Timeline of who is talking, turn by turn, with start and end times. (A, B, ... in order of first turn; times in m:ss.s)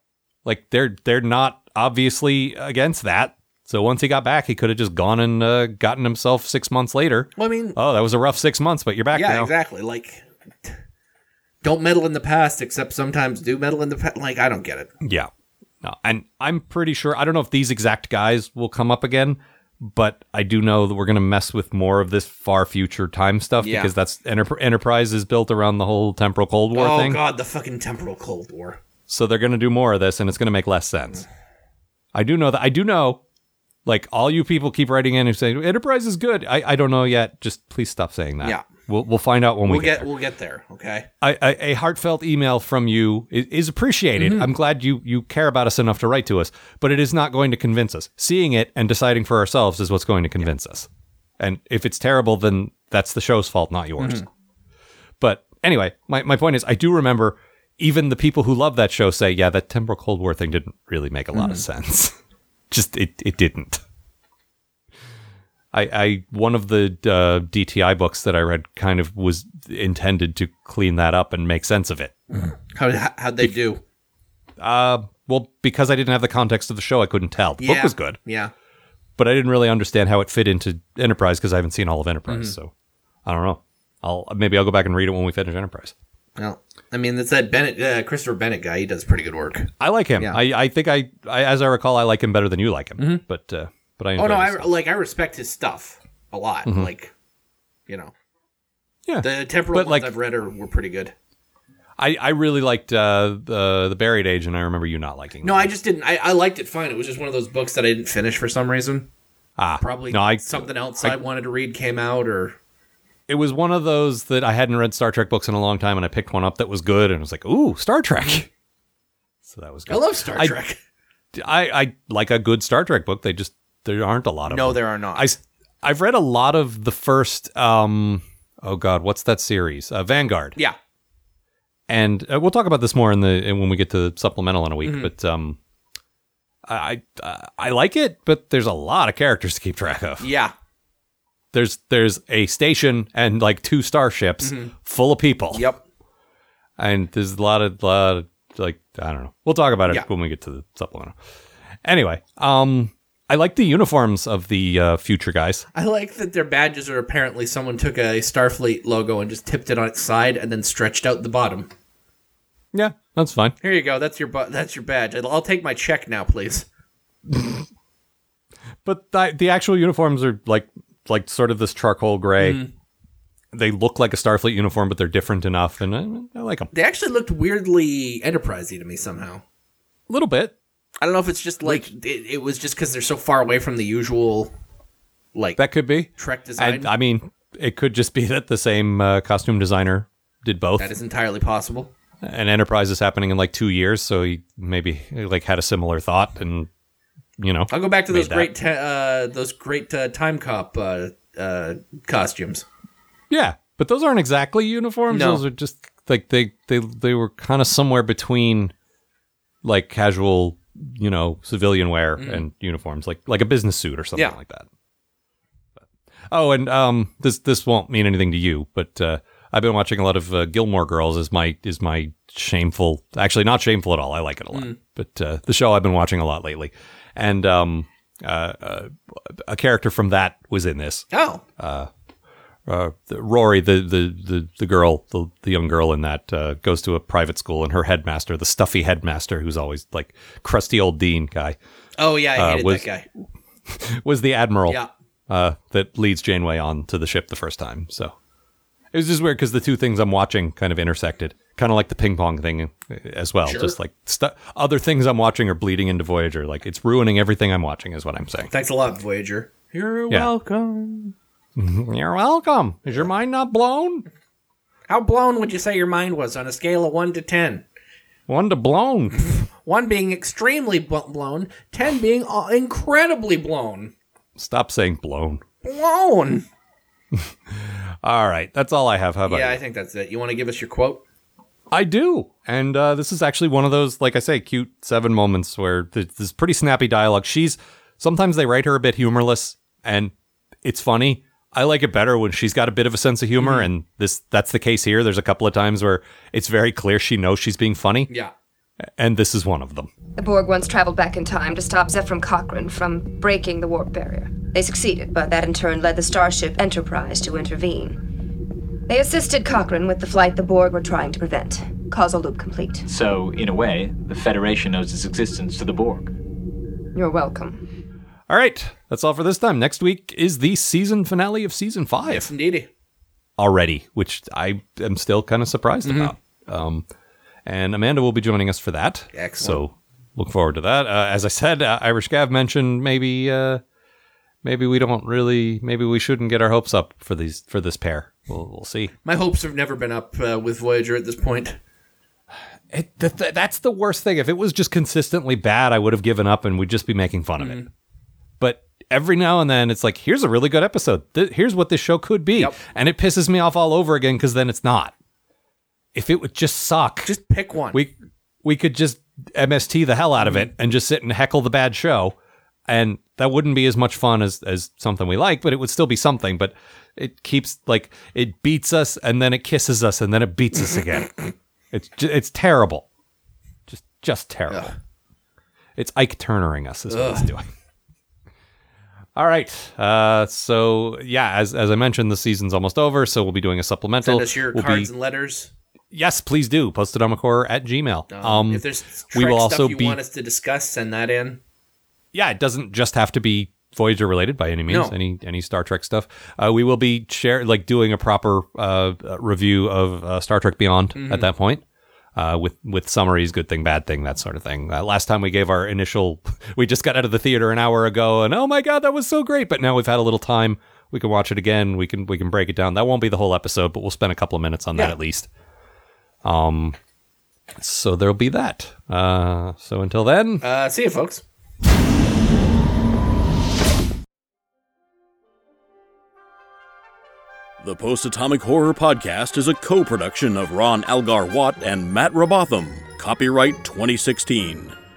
0:00.4-0:09.5 A
0:07.4-0:07.8 B
0:09.1-0:10.7 B
0:11.6-0:14.9 B
0:15.0-0:15.3 A
0:15.8-0:27.2 A
0:23.6-0:23.9 B
0:26.7-0:28.8 B
0:29.1-0:31.2 A
0:32.1-0:33.2 A
0:33.8-0:40.1 A
0:39.7-0:41.1 B
0:41.2-0:50.9 A
0:44.2-0:44.5 B
0:51.4-0:54.3 A
0:54.0-0:54.3 B
0:55.2-1:02.2 A
1:01.4-1:01.6 B
1:02.7-1:03.8 A
1:05.7-1:12.1 A
1:12.3-1:13.8 B
1:14.6-1:18.2 A
1:17.6-1:18.5 B
1:19.2-1:22.7 A
1:22.3-1:22.6 B
1:23.2-1:25.9 A
1:26.4-1:30.4 B
1:29.8-1:34.7 A
1:33.0-1:33.2 B
1:34.2-1:37.1 B
1:36.6-1:36.9 A
1:37.9-1:38.1 B
1:39.1-1:40.1 A
1:39.2-1:41.1 B
1:42.0-1:45.7 A
1:45.4-1:49.1 B
1:49.6-1:51.2 A
1:49.8-1:52.6 B
1:53.3-1:58.5 A
1:59.4-2:00.6 A
1:59.9-2:00.8 B
2:01.3-2:10.6 A
2:04.5-2:05.3 B
2:11.9-2:15.6 A
2:14.8-2:15.1 B
2:16.7-2:20.3 A
2:20.2-2:20.5 B
2:21.5-2:25.7 A
2:24.4-2:24.7 B
2:25.5-2:25.8 B
2:26.8-2:31.2 A
2:31.8-2:35.7 A
2:35.7-2:41.7 B
2:42.7-2:43.6 A
2:43.6-2:46.7 B
2:47.3-2:47.6 A
2:48.8-2:52.6 A
2:52.4-2:52.7 B
2:53.5-2:56.7 A
2:56.7-2:59.4 B
3:00.1-3:00.6 A
3:01.0-3:04.5 B
3:05.6-3:10.9 A
3:06.2-3:06.9 B
3:10.8-3:11.9 B
3:12.2-3:16.7 A
3:17.4-3:18.5 A
3:17.7-3:22.6 B
3:23.3-3:28.7 A
3:25.1-3:25.4 B
3:29.6-3:34.7 A
3:32.2-3:32.4 B
3:36.3-3:51.1 A
3:51.1-3:51.4 B
3:51.6-3:51.9 A
3:52.7-4:01.6 A
4:02.0-4:03.1 B
4:02.4-4:02.9 A
4:03.7-4:08.2 A
4:08.9-4:18.5 A
4:13.5-4:13.8 B
4:18.5-4:21.1 B
4:21.6-4:24.0 A
4:24.9-4:27.6 B
4:28.3-4:29.3 A
4:29.4-4:33.9 B
4:34.4-4:35.4 A
4:35.6-4:36.4 B
4:37.1-4:39.6 A
4:39.3-4:41.0 B
4:41.7-4:50.1 A
4:50.6-4:58.1 A
4:53.4-4:53.7 B
4:59.0-4:59.9 A
5:00.2-5:08.0 C
5:08.9-5:12.9 C
5:12.9-5:16.1 D
5:17.0-5:17.7 C
5:18.3-5:22.3 A
5:22.1-5:22.7 B
5:23.4-5:26.9 A
5:25.8-5:26.1 B
5:27.5-5:33.6 A
5:29.1-5:29.6 B
5:34.4-5:38.9 A
5:39.0-5:41.6 B
5:42.7-5:47.6 A
5:47.4-5:47.7 B
5:48.4-5:54.9 A
5:56.0-5:57.1 A
5:57.0-5:57.8 B
5:57.7-6:02.2 A
6:00.2-6:00.5 B
6:02.7-6:11.2 A
6:11.7-6:12.8 A
6:13.7-6:14.7 A
6:14.5-6:14.8 B
6:15.8-6:17.5 A
6:16.9-6:17.3 B
6:19.2-6:24.9 A
6:24.0-6:25.5 B
6:25.9-6:30.0 A
6:28.1-6:31.4 B
6:32.1-6:41.6 A
6:34.7-6:34.9 B
6:41.0-6:41.3 B
6:42.2-6:55.3 A
6:56.2-6:56.8 A
6:57.6-7:00.4 A
7:00.4-7:01.2 B
7:07.6-7:14.8 E